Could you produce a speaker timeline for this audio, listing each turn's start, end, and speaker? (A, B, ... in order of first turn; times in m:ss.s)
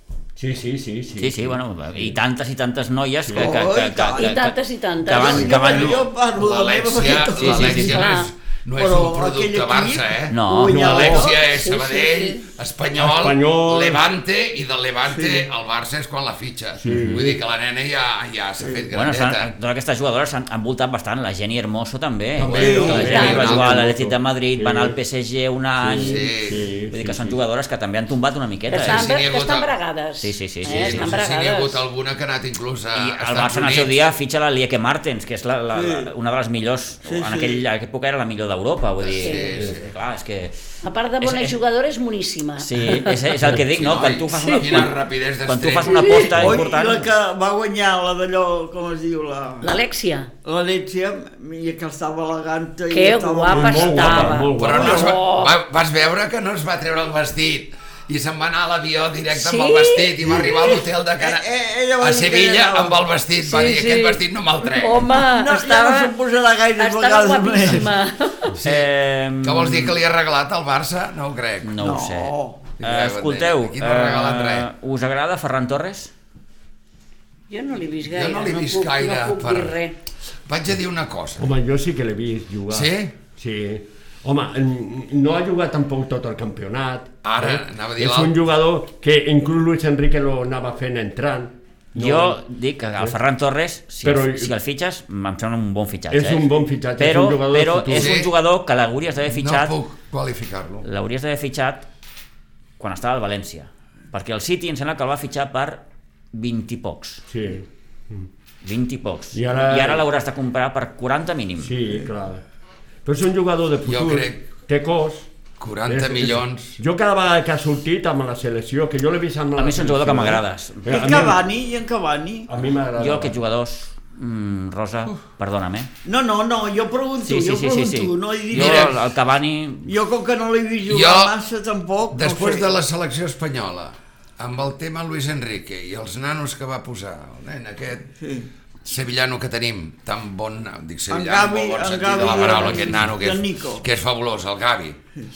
0:00.4-0:02.2 A
0:01.2-0:06.1 B
0:03.2-0:03.6 A
0:03.3-0:04.4 C
0:04.2-0:05.9 D
0:05.0-0:08.0 C
0:05.7-0:19.5 E
0:07.3-0:08.0 B
0:07.7-0:08.3 D
0:08.8-0:11.4 C
0:10.3-0:10.8 B
0:10.6-0:11.3 A
0:11.2-0:12.5 D
0:13.0-0:14.0 A
0:15.1-0:15.5 C
0:16.8-0:17.4 A
0:16.9-0:17.2 B
0:18.9-0:26.3 B
0:22.3-0:25.0 A
0:22.4-0:23.8 E
0:22.6-0:23.0 C
0:23.0-0:23.4 D
0:25.8-0:27.4 A
0:25.9-0:26.6 E
0:26.9-0:29.1 B
0:28.7-0:31.8 D
0:28.7-0:29.7 E
0:30.2-0:31.2 B
0:30.6-0:34.0 E
0:32.9-0:40.6 B
0:35.7-0:36.1 C
0:37.0-0:37.6 C
0:39.0-0:39.9 E
0:39.2-0:39.5 D
0:40.8-0:43.3 D
0:41.2-0:41.6 B
0:42.6-0:47.1 B
0:43.6-0:46.2 E
0:44.3-0:44.7 D
0:46.0-0:46.2 D
0:46.1-0:49.8 C
0:49.6-0:50.3 D
0:50.4-0:54.3 C
0:52.9-0:55.5 D
0:53.5-0:55.2 A
0:54.5-1:01.4 E
0:59.3-1:00.1 D
1:00.4-1:03.0 C
1:02.0-1:05.1 E
1:03.4-1:04.2 D
1:04.7-1:06.1 D
1:05.2-1:07.9 C
1:06.8-1:08.5 D
1:08.6-1:08.9 E
1:08.6-1:10.0 B
1:09.4-1:11.7 E
1:11.6-1:16.1 B
1:11.8-1:12.7 C
1:12.8-1:14.6 E
1:17.5-1:19.9 D
1:18.0-1:19.7 E
1:20.4-1:21.5 E
1:21.4-1:32.4 A
1:22.7-1:23.1 E
1:27.2-1:28.4 E
1:31.9-1:39.8 B
1:34.0-1:34.5 A
1:36.1-1:38.2 A
1:37.9-1:38.3 E
1:39.3-1:40.8 E
1:40.8-1:41.8 B
1:42.8-1:47.2 B
1:47.3-1:48.3 A
1:48.6-1:51.8 B
1:49.3-1:50.0 A
1:51.6-1:52.4 A
1:53.0-1:55.3 A
1:53.8-1:54.4 E
1:55.6-1:56.8 E
1:55.8-2:01.4 A
1:59.6-2:01.3 B
2:00.9-2:02.5 C
2:02.5-2:03.4 A
2:03.0-2:05.9 B
2:06.0-2:09.0 C
2:07.2-2:09.9 B
2:08.5-2:09.0 E
2:09.8-2:12.7 C
2:10.8-2:11.3 E
2:12.1-2:18.1 E
2:18.2-2:18.5 C
2:18.8-2:25.0 E
2:21.1-2:23.8 C